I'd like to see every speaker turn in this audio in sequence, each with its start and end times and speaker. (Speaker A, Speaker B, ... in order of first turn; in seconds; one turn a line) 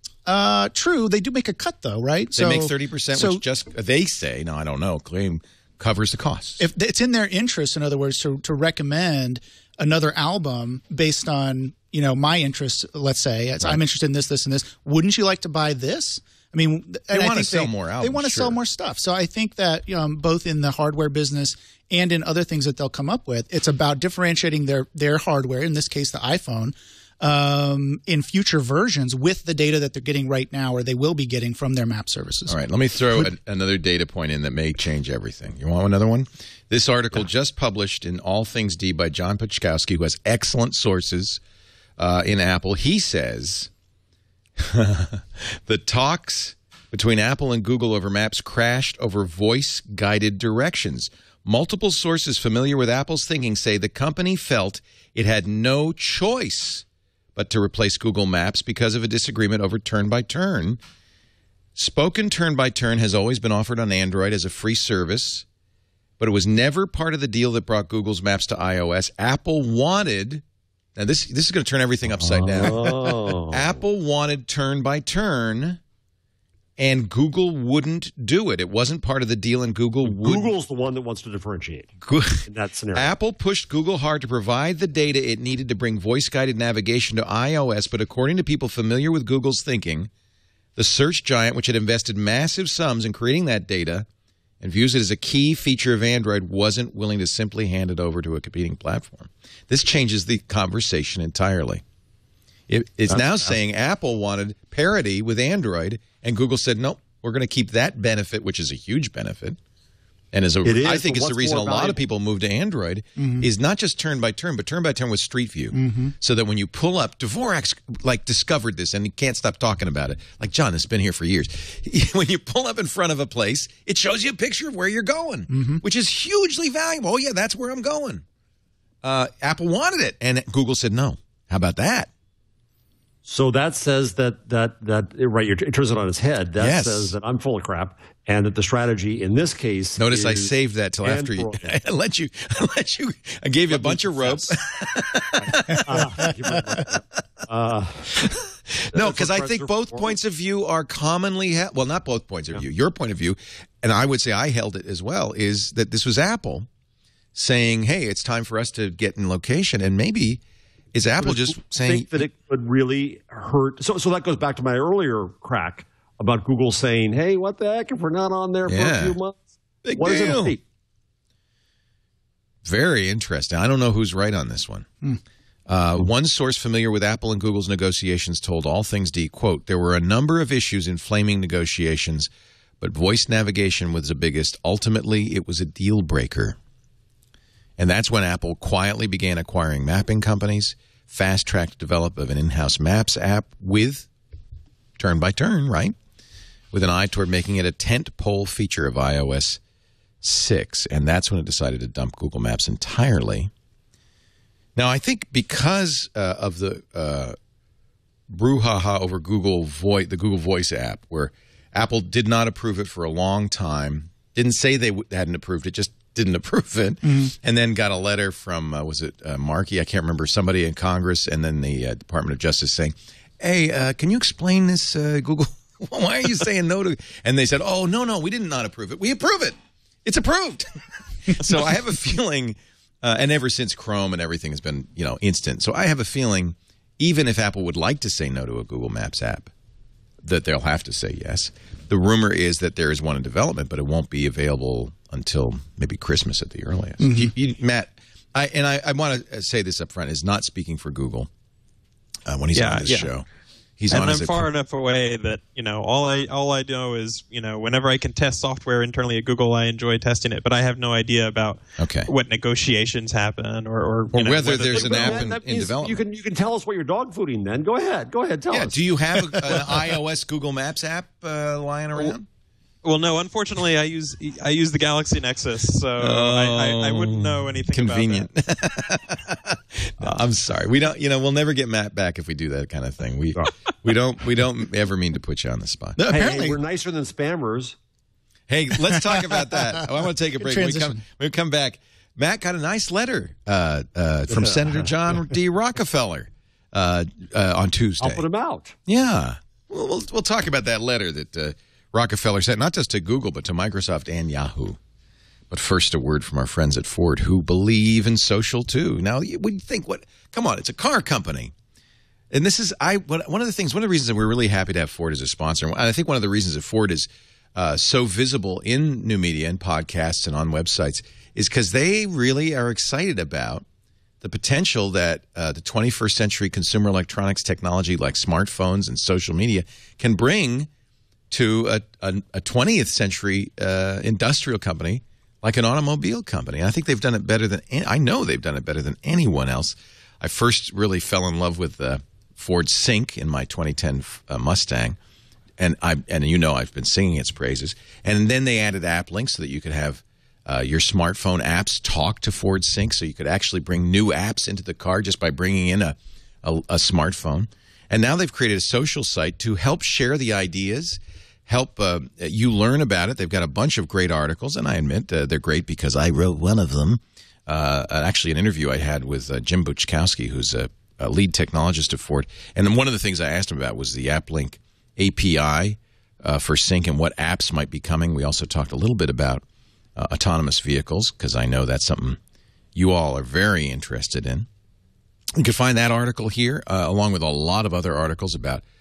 Speaker A: 0.3-3.4
Speaker B: 2.3-6.6
Speaker A: 6.6-32.6
Speaker B: 17.1-18.6
Speaker B: 32.5-41.4
Speaker B: 42.0-43.7
Speaker B: 44.6-56.9
Speaker B: 57.4-60.8
Speaker B: 61.8-65.5
Speaker B: 66.2-70.4
Speaker B: 71.0-75.8
Speaker C: 72.2-73.7
Speaker B: 76.8-80.5
Speaker C: 80.0-81.9
Speaker B: 82.0-90.1
Speaker C: 82.4-83.1
Speaker B: 90.8-94.1
Speaker B: 94.6-101.8
Speaker B: 102.7-109.6
Speaker C: 103.1-103.5
Speaker B: 110.3-128.2
Speaker C: 110.6-112.0
Speaker A: 113.2-113.5
Speaker A: 115.7-116.2
Speaker A: 125.5-125.8
Speaker B: 129.0-132.1
Speaker C: 133.3-140.5
Speaker B: 136.6-137.2
Speaker B: 140.0-146.2
Speaker C: 141.0-141.7
Speaker C: 143.7-144.6
Speaker C: 145.4-148.2
Speaker B: 148.2-156.7
Speaker C: 148.9-150.2
Speaker B: 157.3-160.4
Speaker B: 160.9-162.3
Speaker C: 161.2-169.4
Speaker B: 168.7-169.2
Speaker B: 169.8-170.6
Speaker C: 170.0-170.6
Speaker B: 172.7-174.9
Speaker B: 175.7-182.3
Speaker B: 182.8-186.6
Speaker B: 187.8-194.1
Speaker B: 195.0-196.0
Speaker B: 196.7-199.6
Speaker B: 200.2-203.5
Speaker B: 204.8-207.4
Speaker B: 208.3-230.7
Speaker A: 217.0-217.3
Speaker B: 231.2-239.5
Speaker B: 240.2-251.3
Speaker A: 247.0-247.3
Speaker B: 252.3-253.3
Speaker D: 252.6-253.1
Speaker B: 253.8-254.5
Speaker D: 253.9-265.3
Speaker B: 261.8-262.1
Speaker B: 264.1-266.0
Speaker C: 264.6-268.8
Speaker B: 268.5-272.3
Speaker D: 272.8-278.3
Speaker B: 276.0-286.0
Speaker A: 286.0-286.6
Speaker C: 286.1-287.8
Speaker B: 288.5-298.2
Speaker A: 289.0-289.9
Speaker A: 290.4-291.0
Speaker C: 294.3-294.9
Speaker C: 298.0-298.8
Speaker B: 298.9-304.8
Speaker B: 305.5-311.5
Speaker B: 312.3-323.6
Speaker B: 324.2-330.7
Speaker B: 331.3-345.0
Speaker B: 345.6-379.4
Speaker B: 380.0-382.2
Speaker B: 382.8-384.5
Speaker B: 385.4-388.6